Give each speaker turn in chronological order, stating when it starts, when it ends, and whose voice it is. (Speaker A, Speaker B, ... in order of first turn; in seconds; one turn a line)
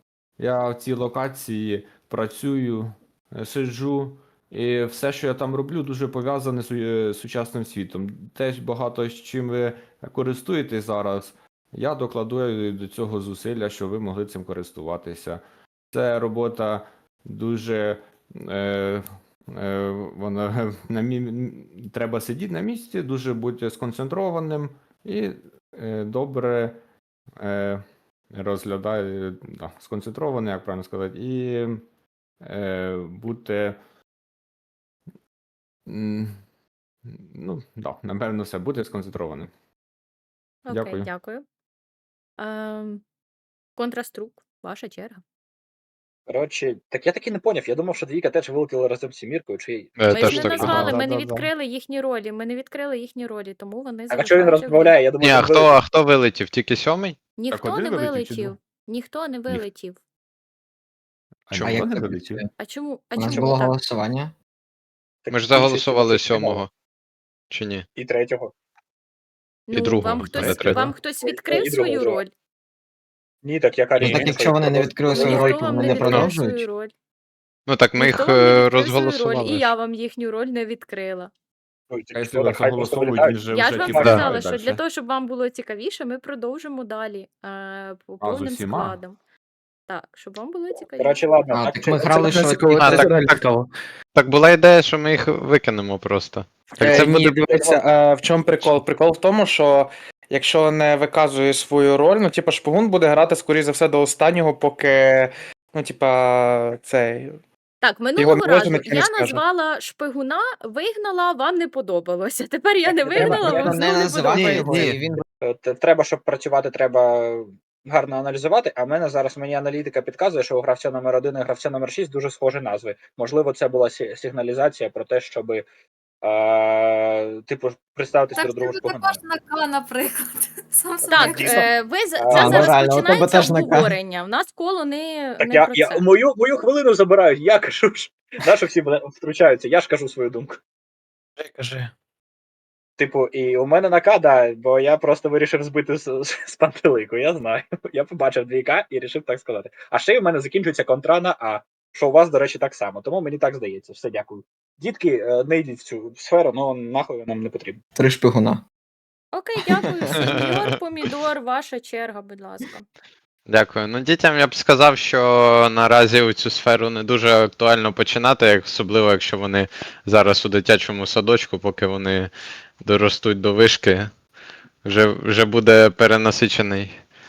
Speaker A: 0.4-26.8
Speaker A: 27.4-31.8
Speaker A: 32.4-33.8
Speaker A: 35.9-36.4
Speaker A: 37.0-39.5
Speaker B: 40.7-41.4
Speaker A: 40.7-41.1
Speaker B: 42.4-43.0
Speaker B: 43.8-45.2
Speaker C: 46.3-50.9
Speaker D: 50.0-51.0
Speaker B: 50.1-55.0
Speaker C: 54.1-55.8
Speaker D: 55.2-57.2
Speaker B: 57.4-60.0
Speaker A: 57.5-58.6
Speaker A: 61.5-62.5
Speaker D: 61.5-61.8
Speaker E: 61.6-62.5
Speaker B: 62.6-63.8
Speaker E: 63.2-64.3
Speaker C: 63.2-63.7
Speaker C: 65.2-66.7
Speaker D: 65.3-66.7
Speaker D: 67.5-67.9
Speaker C: 68.0-68.5
Speaker B: 69.7-72.3
Speaker D: 69.7-70.9
Speaker A: 70.2-70.9
Speaker C: 71.2-72.2
Speaker C: 73.4-76.1
Speaker E: 74.0-76.6
Speaker B: 75.1-76.9
Speaker A: 76.1-76.4
Speaker D: 77.7-79.7
Speaker B: 78.0-81.3
Speaker C: 81.9-84.2
Speaker A: 82.2-84.8
Speaker B: 83.5-89.2
Speaker A: 88.2-89.0
Speaker B: 89.9-91.2
Speaker C: 91.0-92.3
Speaker E: 91.5-93.3
Speaker F: 92.0-93.7
Speaker D: 92.8-93.2
Speaker D: 94.2-97.6
Speaker F: 96.8-107.4
Speaker B: 107.8-115.0
Speaker F: 108.2-109.4
Speaker C: 112.9-114.9
Speaker E: 113.1-115.2
Speaker C: 115.4-125.7
Speaker C: 126.2-129.2
Speaker G: 128.4-131.7
Speaker B: 131.0-136.1
Speaker C: 131.2-131.5
Speaker C: 132.2-132.7
Speaker E: 132.3-133.9
Speaker C: 135.4-140.6
Speaker F: 141.4-141.9
Speaker C: 143.0-157.8
Speaker E: 158.0-158.6
Speaker B: 159.3-162.9
Speaker D: 163.5-172.3
Speaker D: 172.8-174.1
Speaker D: 174.8-177.0